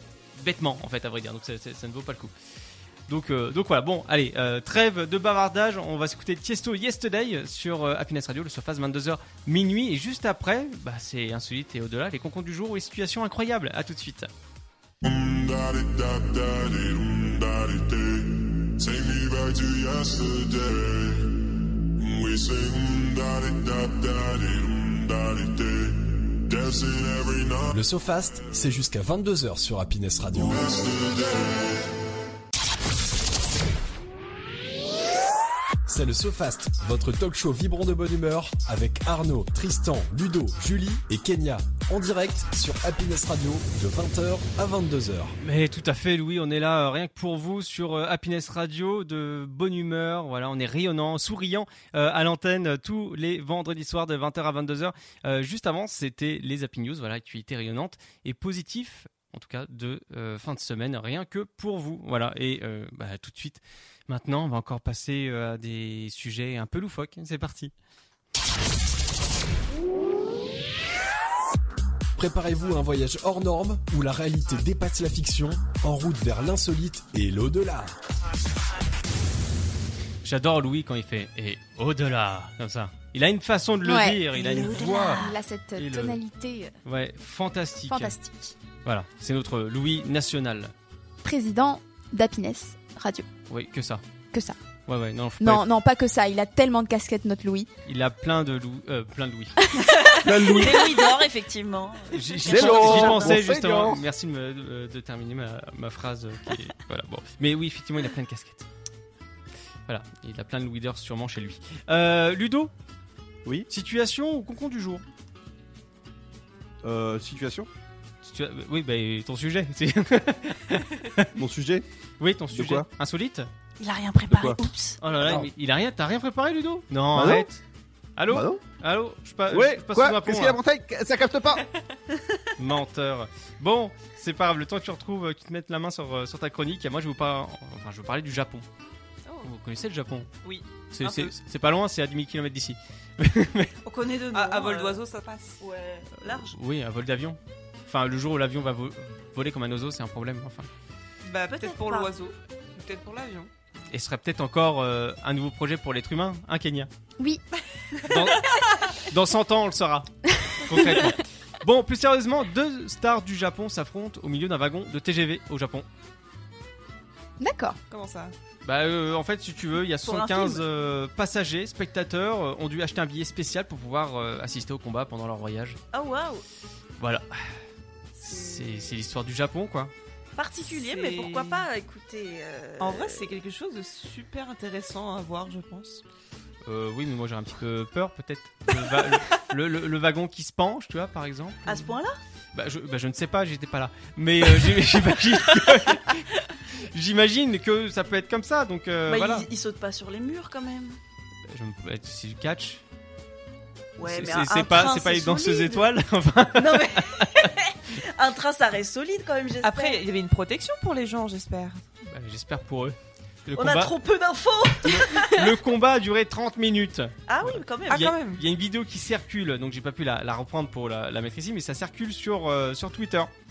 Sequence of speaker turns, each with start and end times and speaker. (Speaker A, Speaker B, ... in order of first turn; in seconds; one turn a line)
Speaker A: 0.4-2.3
Speaker A: 3.1-14.3
Speaker B: 15.0-27.8
Speaker C: 27.7-30.7
Speaker B: 30.3-31.9
Speaker C: 35.9-45.4
Speaker A: 45.4-67.7
Speaker C: 72.2-78.0
Speaker A: 80.2-86.2
Speaker D: 83.8-86.8
Speaker A: 86.8-88.2
Speaker D: 87.9-88.5
Speaker A: 88.8-90.7
Speaker D: 91.2-93.3
Speaker A: 93.5-94.0
Speaker A: 94.9-95.6
Speaker D: 95.4-97.7
Speaker A: 97.9-99.5
Speaker E: 99.8-103.4
Speaker F: 100.2-101.1
Speaker A: 102.1-108.7
Speaker F: 102.5-104.0
Speaker A: 109.9-112.7
Speaker A: 113.7-115.0
Speaker F: 116.8-117.7
Speaker A: 118.2-121.3
Speaker F: 121.4-121.9
Speaker A: 122.2-123.5
Speaker F: 122.5-122.9
Speaker E: 123.8-125.0
Speaker F: 124.3-124.6
Speaker A: 125.0-127.6
Speaker F: 125.2-125.5
Speaker F: 127.1-127.5
Speaker A: 128.2-130.6
Speaker F: 128.3-128.6
Speaker F: 129.5-131.6
Speaker A: 132.6-138.7
Speaker G: 139.2-139.5
Speaker A: 139.4-140.3
Speaker G: 140.4-141.3
Speaker A: 140.9-143.7
Speaker E: 143.8-145.0
Speaker G: 144.3-145.6
Speaker E: 145.6-146.6
Speaker A: 146.2-150.7
Speaker G: 151.2-153.5
Speaker E: 151.5-152.1
Speaker A: 153.9-156.9
Speaker A: 158.1-165.9
Speaker D: 167.4-167.8
Speaker G: 167.9-168.3
Speaker A: 168.7-175.8
Speaker E: 170.0-170.7
Speaker E: 175.9-176.4
Speaker A: 177.0-177.5
Speaker A: 178.2-179.9
Speaker E: 178.2-179.0
Speaker E: 180.4-183.4
Speaker G: 180.6-181.7
Speaker G: 182.8-186.0
Speaker A: 186.7-191.6
Speaker E: 191.7-192.2
Speaker A: 192.5-199.5
Speaker E: 199.1-201.0
Speaker A: 201.5-202.8
Speaker E: 204.0-205.9
Speaker A: 204.0-207.5
Speaker E: 206.6-210.0
Speaker G: 209.6-211.8
Speaker A: 212.1-213.9
Speaker E: 213.6-215.5
Speaker A: 214.8-223.3
Speaker E: 217.3-218.1
Speaker G: 217.9-218.4